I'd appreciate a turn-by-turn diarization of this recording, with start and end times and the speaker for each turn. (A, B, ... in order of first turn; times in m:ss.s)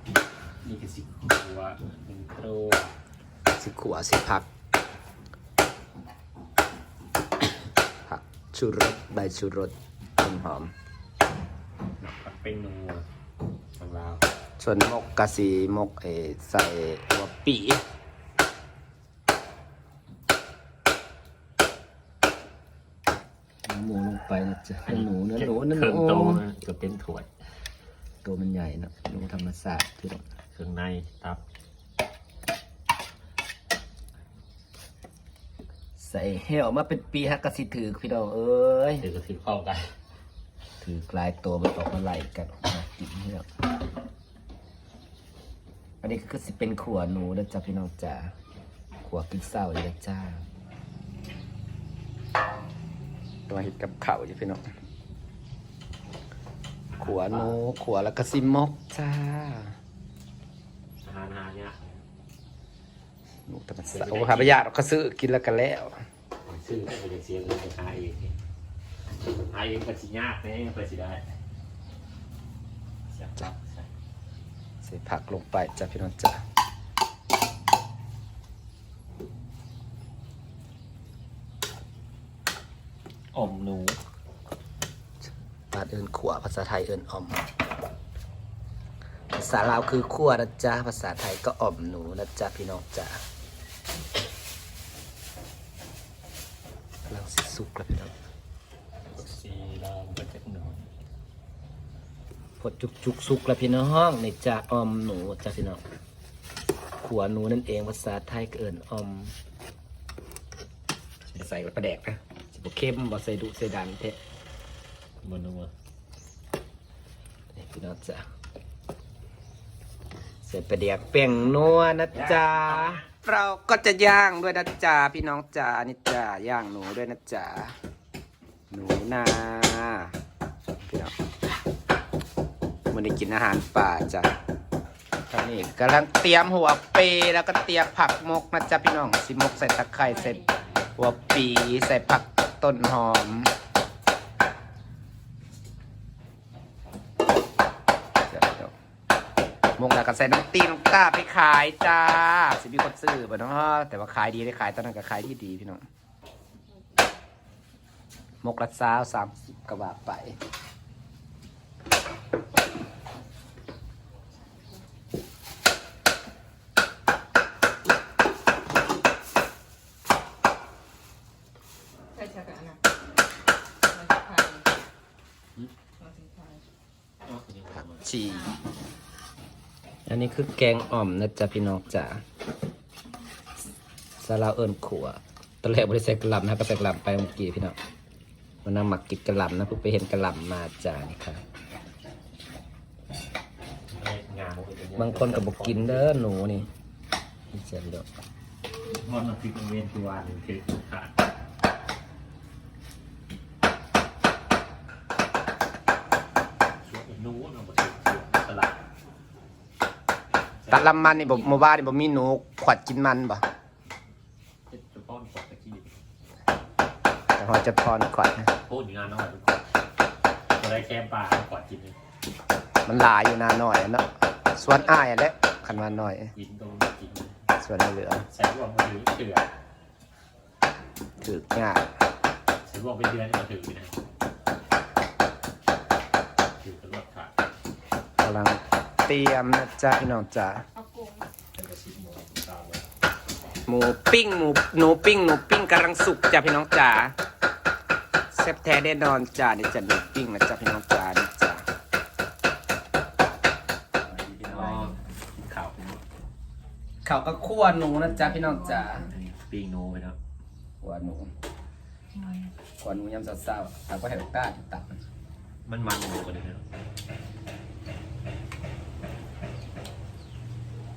0:00.6-0:03.0 A
0:03.6-0:04.5 B
0:08.1-0:10.7 B
0:12.0-0:13.1 A
0:13.8-0:14.2 A
0:14.6-0:17.8 B
0:23.7-0:26.4 B
0:24.9-0:27.3 A
0:28.2-0:30.2 B
0:30.5-0:31.4 A
0:36.0-0:39.0 B
0:39.0-0:39.9 A
0:40.8-0:43.5 B
0:46.0-0:48.3 B
0:49.0-0:50.5 B
0:53.5-0:54.6 B
0:56.9-0:57.6 A
0:57.0-0:59.8 B
1:01.0-1:02.0 A
1:03.5-1:06.0 B
1:03.9-1:04.6 A
1:06.5-1:08.4 A
1:09.4-1:11.3 A
1:13.1-1:13.9 A
1:14.8-1:16.4 B
1:23.3-1:24.0 A
1:25.7-1:27.5 B
1:29.3-1:33.2 B
1:37.1-1:38.1 B
1:39.1-1:40.9 A
1:42.6-1:45.8 B
1:47.0-1:49.4 B
1:51.3-1:54.2 B
1:55.2-1:55.7 A
1:57.5-1:58.3 B
2:00.4-2:07.8 B
2:02.1-2:03.1 A
2:08.7-2:10.1 B
2:10.8-2:11.2 B
2:12.9-2:14.3 B
2:15.3-2:20.4 B
2:20.0-2:20.8 C
2:21.0-2:23.5 B
2:28.3-2:28.7 B
2:29.8-2:35.8 B
2:36.8-2:37.1 C
2:38.4-2:40.4 B
2:52.1-2:52.8 C
2:53.9-2:54.8 C
2:56.0-2:56.6 C
2:57.2-2:58.1 A
2:58.0-2:58.6 B
3:00.1-3:02.2 B
3:04.2-3:07.8 B
3:08.6-3:11.4 B
3:13.9-3:16.1 A
3:15.0-3:16.7 B
3:17.5-3:18.1 B
3:18.9-3:21.1 A
3:26.8-3:28.8 A
3:30.6-3:31.5 A
3:30.7-3:33.4 B
3:34.7-3:36.0 A
3:37.4-3:38.5 B
3:38.6-3:39.7 A
3:40.6-3:42.0 A
3:42.8-3:46.3 B
3:46.4-3:47.4 A
3:47.6-3:48.3 B
3:48.3-3:49.5 A
3:51.2-3:51.9 B
3:52.6-3:54.0 A
3:56.6-3:57.3 A
3:58.2-4:00.7 B
4:00.8-4:01.3 C
4:01.5-4:02.8 A
4:03.7-4:07.1 B
4:08.3-4:11.6 B
4:14.1-4:16.0 A
4:14.2-4:14.9 B
4:14.5-4:15.0 C
4:17.0-4:19.1 B
4:18.1-4:19.1 C
4:19.0-4:20.2 A
4:20.8-4:21.3 B
4:22.1-4:22.5 C
4:22.8-4:25.0 B
4:25.7-4:26.6 A